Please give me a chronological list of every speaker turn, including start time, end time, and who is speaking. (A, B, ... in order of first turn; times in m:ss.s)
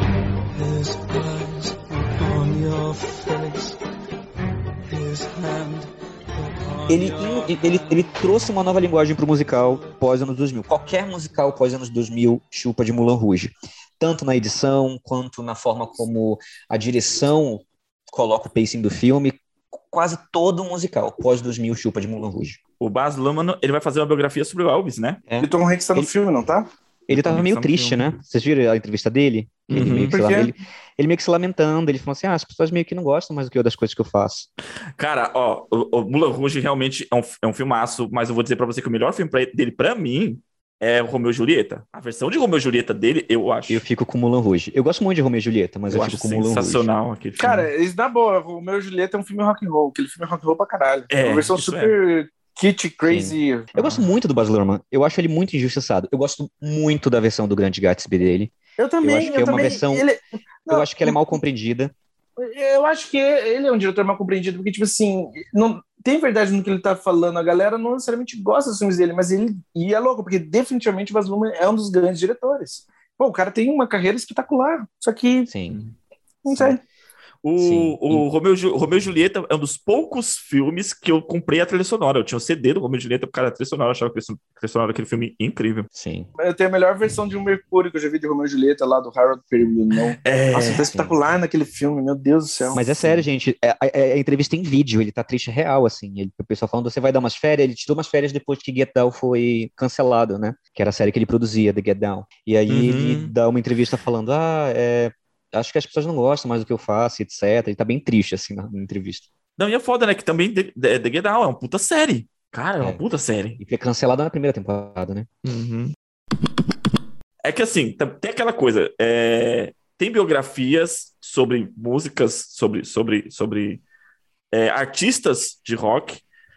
0:00.5-0:03.7 A
0:04.9-0:08.0 A
0:06.9-0:19.4 B
0:19.9-0:22.6 B
0:22.8-0:25.2 C
0:25.3-0:26.1 B
0:25.4-0:26.7 D
0:27.1-0:28.0 C
0:27.1-0:34.5 B
0:29.7-0:30.2 C
0:30.0-0:30.5 D
0:35.0-0:43.8 C
0:43.7-0:46.9 B
0:45.9-0:47.7 C
0:47.4-0:53.7 D
0:51.1-0:52.0 C
0:53.0-1:00.0 B
0:53.8-0:54.0 C
0:58.8-1:01.4 D
1:00.7-1:01.9 B
1:02.4-1:15.5 D
1:15.5-1:15.8 B
1:16.4-1:16.8 D
1:17.4-1:25.9 C
1:17.6-1:18.2 B
1:25.9-1:26.3 B
1:26.4-1:32.8 D
1:30.2-1:30.8 C
1:30.6-1:31.1 B
1:32.7-1:49.2 B
1:42.7-1:43.3 C
1:49.6-1:53.6 C
1:53.6-1:55.3 B
1:55.4-1:55.9 C
1:57.4-2:03.8 C
2:04.5-2:06.2 C